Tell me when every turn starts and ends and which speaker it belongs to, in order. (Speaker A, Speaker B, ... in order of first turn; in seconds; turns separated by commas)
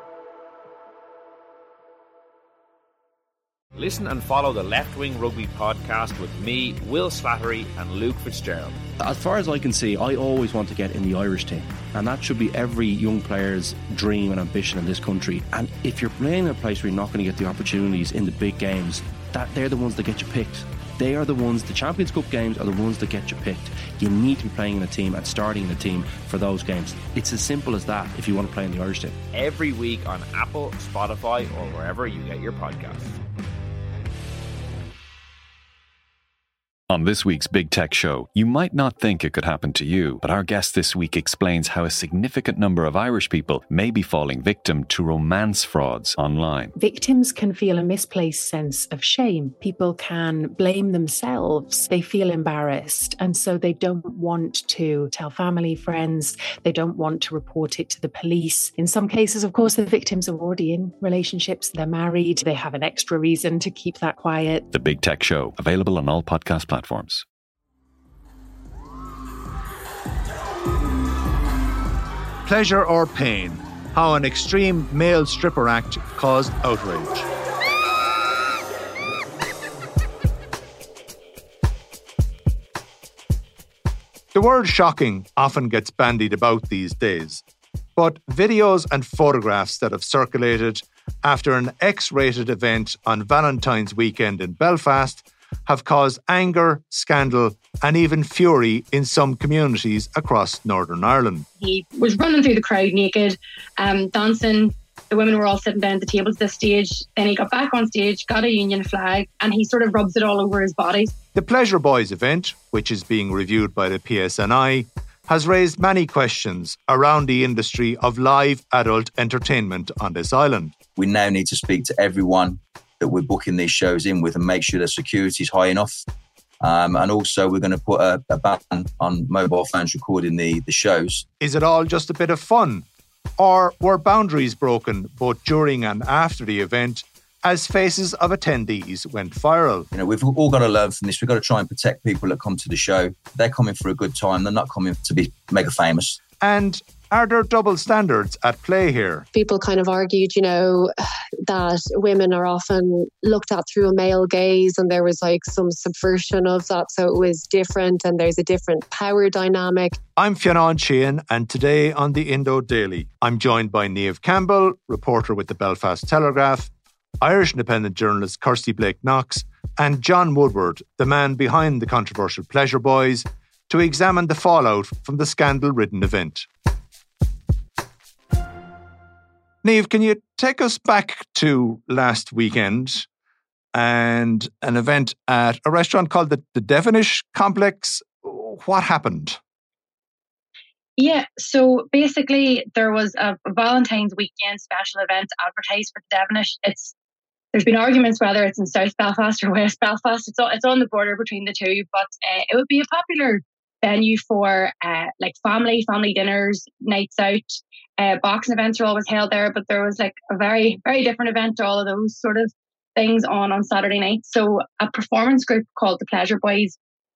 Speaker A: 3.7-8.8, Speaker B: 9.0-29.2, Speaker A: 29.3-33.1, Speaker C: 36.9-46.7, Speaker D: 46.8-64.7, Speaker C: 64.7-67.2, Speaker E: 72.5-77.3, Speaker E: 84.3-87.4, Speaker E: 88.0-101.5, Speaker F: 101.6-111.1, Speaker E: 111.3-120.7, Speaker G: 121.0-126.0, Speaker G: 126.6-131.2, Speaker E: 131.4-132.8, Speaker E: 133.4-139.9, Speaker G: 139.9-146.2, Speaker E: 146.4-149.2, Speaker H: 149.3-150.9, Speaker H: 151.4-160.0, Speaker E: 160.2-176.5, Speaker E: 179.6-183.1, Speaker E: 183.7-189.4, Speaker F: 191.0-196.9, Speaker F: 197.5-216.8